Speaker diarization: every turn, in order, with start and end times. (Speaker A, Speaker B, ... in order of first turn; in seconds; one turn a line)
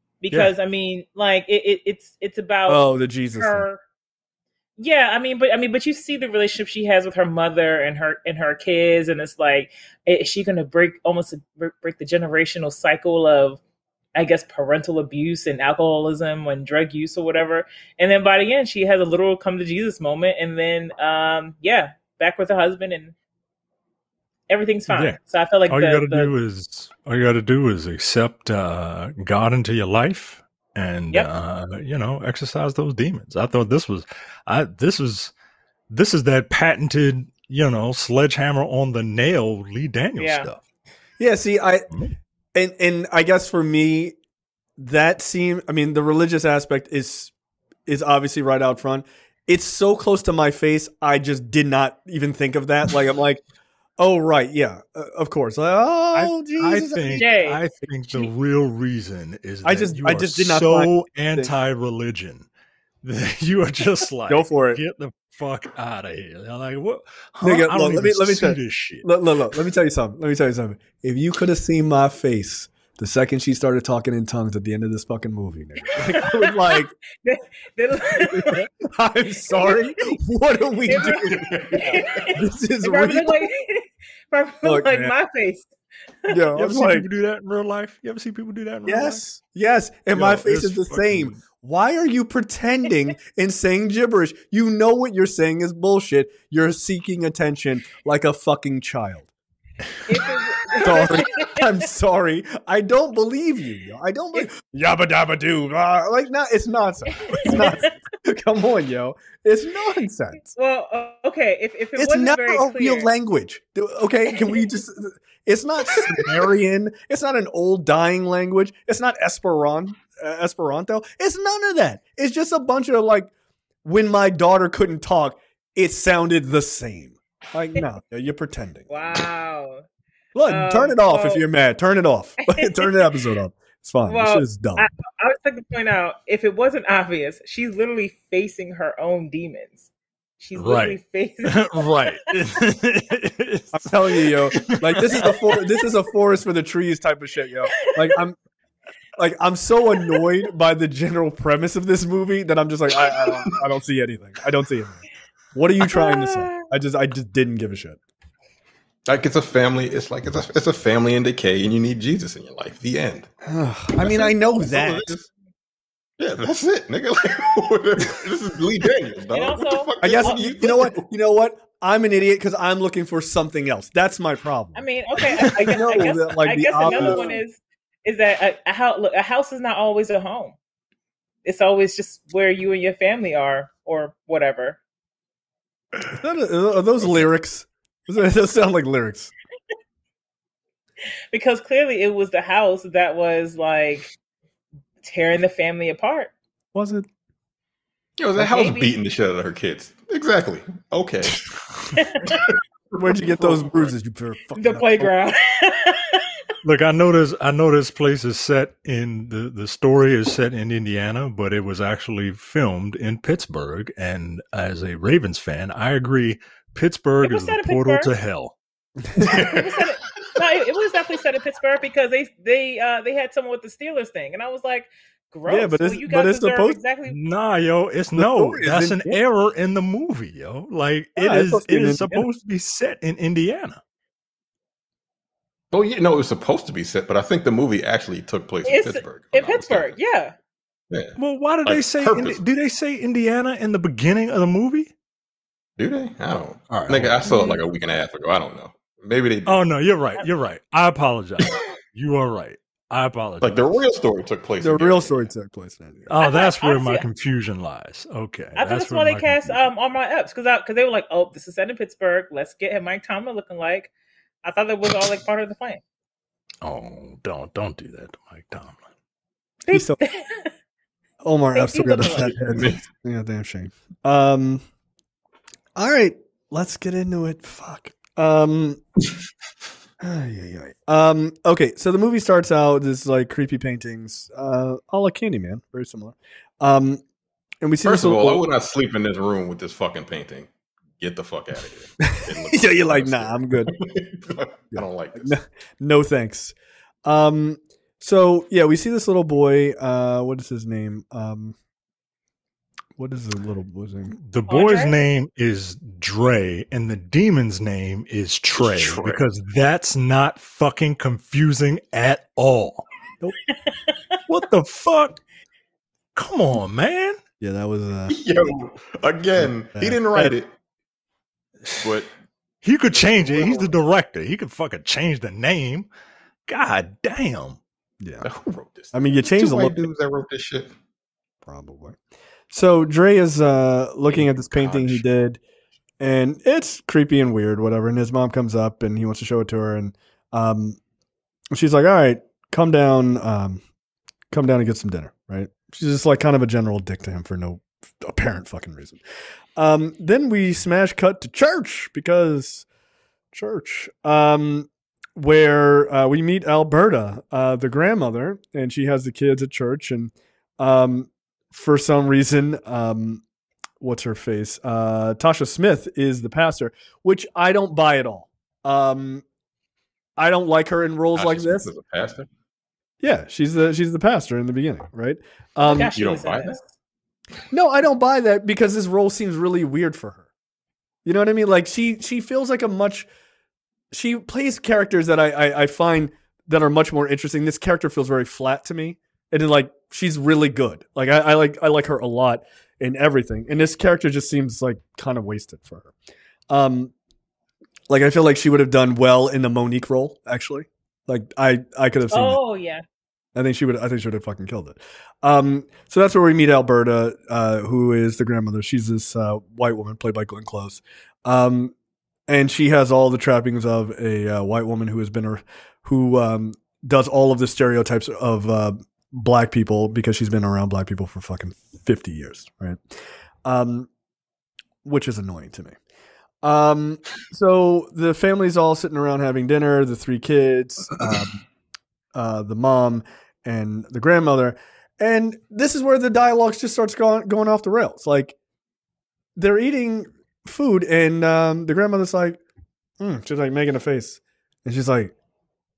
Speaker A: 0.2-3.8
Speaker B: 2.7-3.7
Speaker A: 4.8-13.6
Speaker A: 14.1-23.1
Speaker A: 24.5-26.3
Speaker C: 24.9-35.3
Speaker C: 35.9-40.6
Speaker A: 40.2-40.5
Speaker B: 41.2-41.9
Speaker B: 42.5-44.1
Speaker B: 44.8-47.3
Speaker B: 47.9-53.4
Speaker B: 54.0-57.3
Speaker C: 56.1-62.5
Speaker A: 57.1-57.6
Speaker B: 59.6-61.5
Speaker C: 63.0-69.1
Speaker B: 64.3-64.8
Speaker B: 67.4-76.9
Speaker A: 76.0-78.6
Speaker B: 78.2-83.4
Speaker A: 80.9-85.7
Speaker D: 81.3-82.3
Speaker B: 84.6-85.1
Speaker B: 86.3-87.1
Speaker C: 86.5-89.2
Speaker B: 88.9-99.3
Speaker C: 90.1-91.4
Speaker A: 100.1-101.6
Speaker B: 100.8-110.5
Speaker A: 107.3-107.9
Speaker A: 110.5-113.1
Speaker B: 112.0-123.3
Speaker B: 123.8-129.2
Speaker A: 128.9-129.8
Speaker B: 130.3-134.9
Speaker A: 130.5-131.4
Speaker A: 132.5-132.9
Speaker A: 134.1-139.9
Speaker A: 140.4-142.3
Speaker C: 140.6-145.0
Speaker B: 143.7-148.4
Speaker B: 149.2-158.0
Speaker A: 155.8-156.6
Speaker D: 159.1-163.3
Speaker B: 163.4-165.2
Speaker D: 164.0-165.3
Speaker D: 166.2-171.0
Speaker A: 169.3-170.4
Speaker B: 170.0-174.8
Speaker A: 174.8-180.6
Speaker C: 175.3-176.1
Speaker B: 175.4-177.4
Speaker D: 176.8-177.3
Speaker A: 181.4-184.8
Speaker B: 186.1-189.3
Speaker A: 191.3-194.1
Speaker A: 195.0-196.3
Speaker B: 196.7-197.1
Speaker D: 198.2-203.9
Speaker A: 198.3-198.9
Speaker B: 203.0-205.1
Speaker A: 204.6-206.4
Speaker C: 206.6-218.6
Speaker A: 217.2-218.1
Speaker D: 219.2-220.4
Speaker A: 219.2-227.2
Speaker B: 225.5-226.8
Speaker C: 227.1-233.8
Speaker B: 228.2-229.2
Speaker B: 231.2-232.3
Speaker D: 235.7-239.9
Speaker A: 238.6-240.3
Speaker D: 240.9-242.4
Speaker C: 241.2-244.9
Speaker D: 245.8-249.7
Speaker C: 246.7-247.3
Speaker A: 247.3-247.6
Speaker C: 249.4-253.6
Speaker D: 253.4-255.3
Speaker B: 254.6-256.1
Speaker C: 256.1-259.7
Speaker A: 256.2-257.0
Speaker A: 258.6-263.9
Speaker A: 264.4-265.8
Speaker C: 266.6-268.8
Speaker A: 269.6-270.5
Speaker B: 269.7-270.0
Speaker B: 271.2-274.6
Speaker A: 271.6-272.4
Speaker D: 272.4-272.8
Speaker B: 275.8-278.8
Speaker B: 280.0-287.0
Speaker B: 287.6-288.5
Speaker D: 287.9-295.3
Speaker B: 292.1-293.7
Speaker B: 294.7-296.5
Speaker B: 297.1-301.6
Speaker B: 303.0-304.2
Speaker C: 304.2-312.9
Speaker A: 304.5-305.0
Speaker D: 308.6-309.2
Speaker C: 314.3-315.2
Speaker C: 316.1-317.2
Speaker B: 317.4-318.2
Speaker D: 318.1-320.5
Speaker B: 319.4-320.4
Speaker C: 321.7-321.9
Speaker D: 321.8-322.1
Speaker C: 322.6-325.9
Speaker D: 322.9-323.8
Speaker C: 326.5-327.6
Speaker B: 328.0-328.3
Speaker D: 328.2-330.7
Speaker B: 328.9-329.9
Speaker B: 331.4-332.0
Speaker B: 332.5-335.4
Speaker D: 334.1-335.0
Speaker B: 336.0-340.8
Speaker B: 341.5-343.6
Speaker B: 344.3-349.0
Speaker B: 349.6-352.6
Speaker B: 353.3-363.2
Speaker B: 363.8-369.2
Speaker B: 370.2-371.7
Speaker D: 371.1-372.3
Speaker B: 373.0-375.9
Speaker A: 375.6-376.6
Speaker D: 375.9-376.6
Speaker B: 377.5-380.2
Speaker B: 381.1-383.1
Speaker B: 383.9-395.9
Speaker B: 396.5-396.9
Speaker B: 397.9-402.4
Speaker A: 402.1-402.8
Speaker B: 403.4-411.7
Speaker B: 412.3-422.8
Speaker B: 423.4-423.9
Speaker B: 424.8-425.8
Speaker B: 426.4-431.4
Speaker B: 432.1-438.4
Speaker B: 439.4-442.4
Speaker B: 443.0-445.1